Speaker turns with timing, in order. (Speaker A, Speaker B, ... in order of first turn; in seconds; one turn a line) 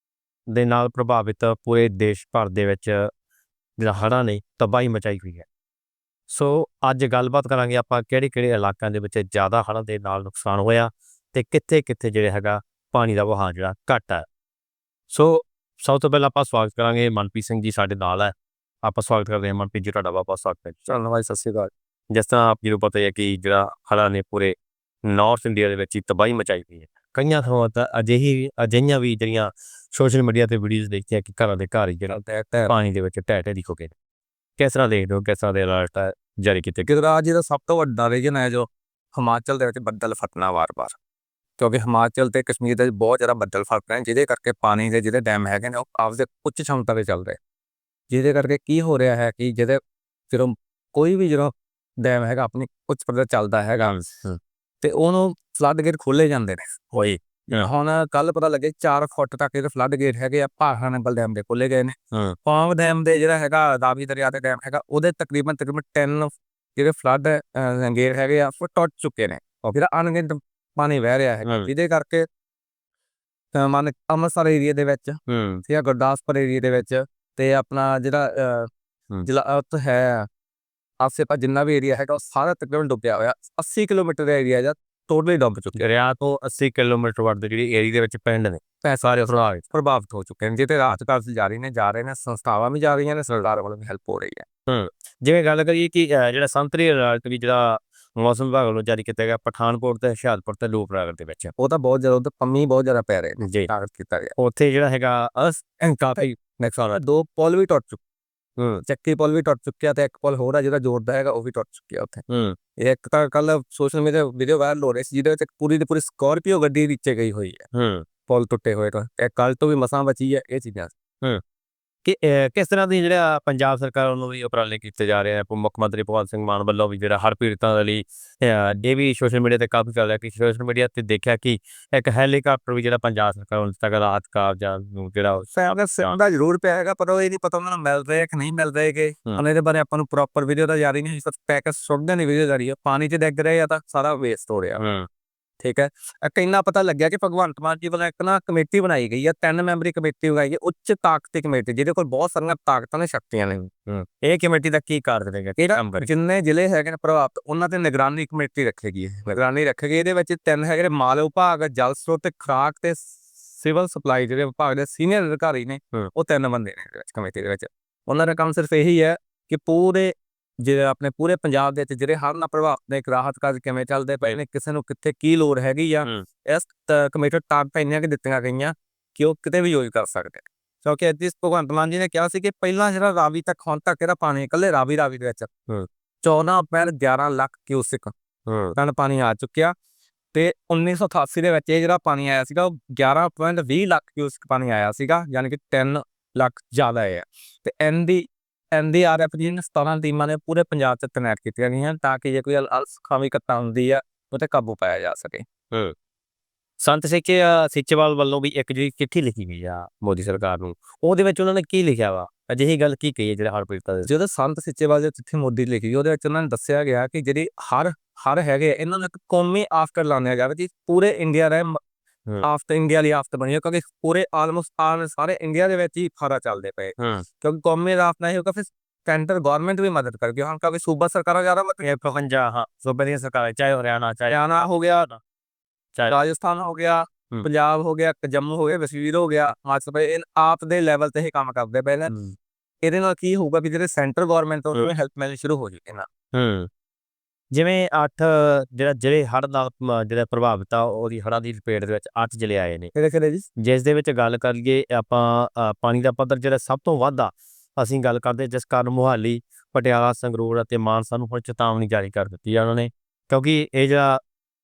Speaker A: 0.5-3.1
Speaker A: 3.8-5.5
Speaker A: 6.3-14.2
Speaker A: 15.1-21.0
Speaker B: 20.9-21.7
Speaker A: 22.1-32.1
Speaker B: 32.1-32.7
Speaker A: 32.7-33.9
Speaker A: 34.6-36.9
Speaker B: 36.9-40.9
Speaker B: 41.6-47.4
Speaker B: 48.1-54.0
Speaker A: 53.9-54.4
Speaker B: 54.8-56.8
Speaker A: 56.9-57.7
Speaker B: 57.6-72.2
Speaker A: 71.4-71.7
Speaker B: 73.5-78.7
Speaker A: 75.3-75.6
Speaker B: 79.2-80.3
Speaker B: 81.0-85.8
Speaker A: 85.8-88.6
Speaker B: 88.8-94.4
Speaker A: 89.2-89.6
Speaker A: 94.7-101.5
Speaker B: 101.6-104.3
Speaker A: 103.4-103.7
Speaker A: 104.4-105.6
Speaker B: 105.8-108.0
Speaker A: 108.6-108.8
Speaker B: 108.8-112.2
Speaker A: 112.3-112.5
Speaker B: 112.8-117.7
Speaker A: 117.7-118.0
Speaker B: 118.3-120.9
Speaker A: 122.0-135.5
Speaker B: 135.5-144.8
Speaker A: 144.8-145.1
Speaker B: 145.6-153.7
Speaker A: 153.9-156.1
Speaker B: 155.6-185.5
Speaker B: 186.2-188.1
Speaker A: 188.5-188.8
Speaker B: 188.7-189.7
Speaker B: 190.3-205.4
Speaker A: 206.8-214.1
Speaker B: 214.1-221.8
Speaker B: 222.4-231.8
Speaker A: 227.0-227.2
Speaker A: 231.8-234.5
Speaker B: 234.3-235.1
Speaker B: 236.1-242.1
Speaker A: 242.1-242.3
Speaker B: 242.8-246.1
Speaker A: 246.3-246.7
Speaker A: 247.5-252.9
Speaker B: 252.9-253.4
Speaker A: 253.6-264.2